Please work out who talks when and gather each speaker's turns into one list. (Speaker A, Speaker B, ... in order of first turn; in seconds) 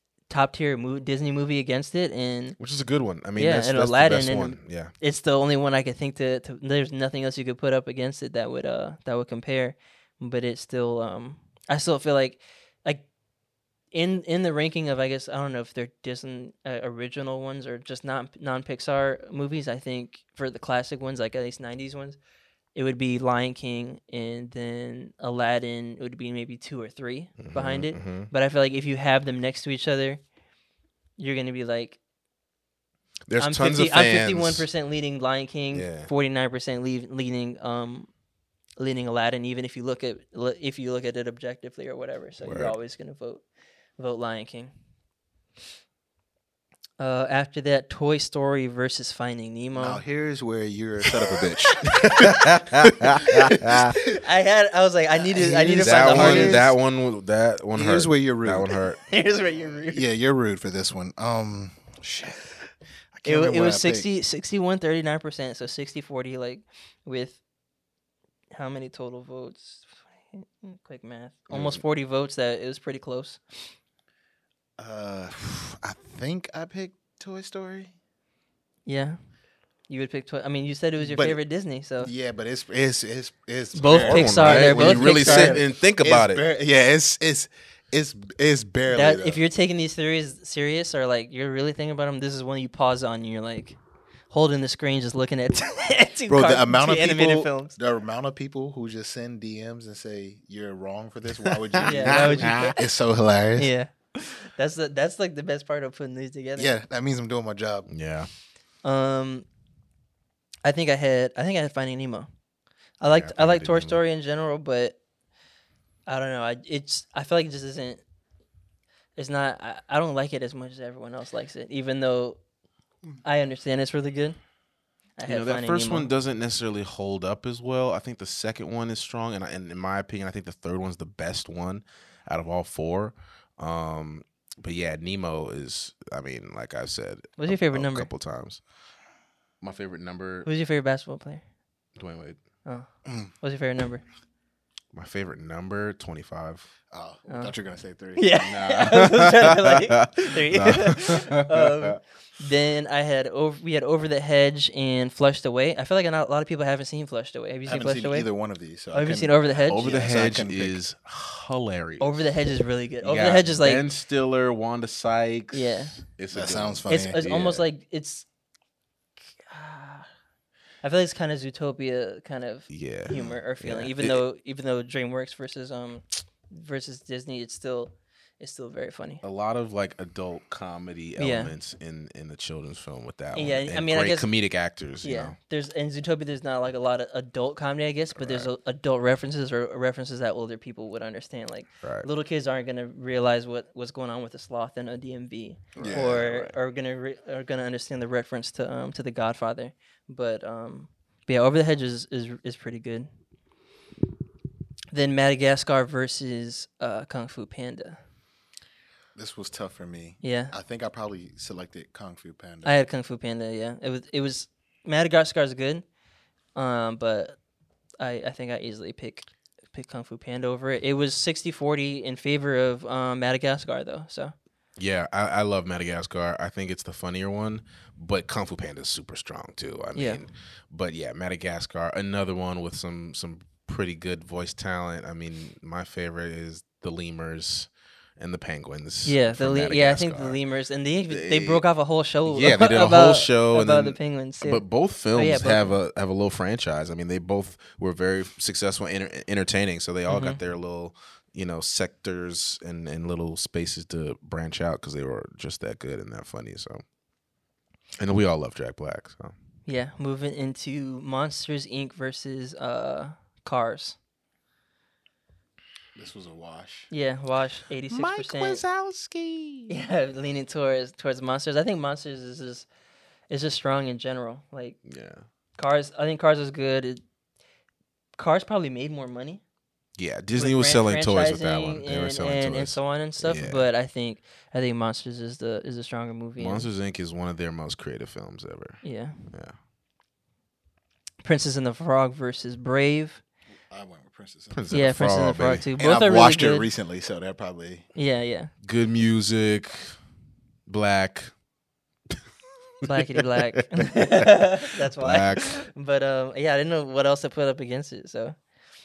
Speaker A: 0.3-2.6, 3.4-13.1, 13.9-22.2, 22.7-30.2, 31.2-32.0, 33.4-38.1, 38.8-43.4, 44.0-44.7, 47.0-50.0, 54.0-56.6, 59.0-60.0, 63.2-67.4, 68.5-73.7, 78.8-79.2, 79.9-82.1, 83.7-85.6, 88.9-93.8, 94.3-97.7, 101.8-102.8, 103.5-106.7, 108.8-109.5, 110.6-112.3, 113.0-115.0, 116.1-118.0, 119.2-122.4, 123.2-124.4, 125.2-126.1, 137.4-138.1, 140.4-141.4, 142.6-144.0, 147.3-147.5, 148.2-158.3, 158.9-159.9, 162.0-163.9, 165.5-166.0, 166.9-168.2, 169.4-170.1, 170.8-179.2, 181.2-181.5, 183.3-184.3, 185.0-203.1, 204.9-208.0, 210.2-210.5, 212.6-215.8, 216.5-217.4, 218.0-224.3, 229.9-230.2, 239.0-245.8, 250.1-250.4, 259.6-264.0, 266.9-268.6, 269.7-272.7, 273.3-274.8, 275.6-277.0, 278.1-279.4, 280.3-286.7, 288.8-289.3, 291.2-293.2, 294.7-296.7, 297.9-298.5, 302.8-308.4
Speaker B: 2.6-4.9, 27.4-28.3, 33.3-34.7, 35.7-36.1, 42.4-42.7, 51.9-54.0, 55.8-59.0, 71.5-71.8, 83.9-86.4, 101.4-102.7, 107.9-108.3, 113.1-114.0, 125.2-138.6, 139.6-140.5, 141.9-142.4, 144.9-146.7, 148.5-152.0, 159.7-162.1, 163.0-167.6, 172.7-174.2, 179.2-185.3, 188.2-188.5, 191.8-192.1, 195.8-196.6, 224.8-240.4, 241.1-241.6, 242.2-256.8, 258.0-259.3, 267.9-269.7, 274.8-275.2, 279.9-283.7, 286.4-289.6, 294.5-295.6, 298.6-300.0, 300.7-301.4, 303.7-304.4, 305.0-305.6
Speaker C: 49.7-54.1, 55.2-56.7, 57.7-58.8, 59.9-62.6, 63.1-64.0, 74.8-77.9, 81.0-81.4, 82.0-89.4, 96.3-103.7, 106.5-107.9, 146.9-148.6, 157.7-160.8, 166.3-167.2, 195.8-196.2, 209.1-212.8, 265.9-266.9, 293.7-294.6, 295.8-297.9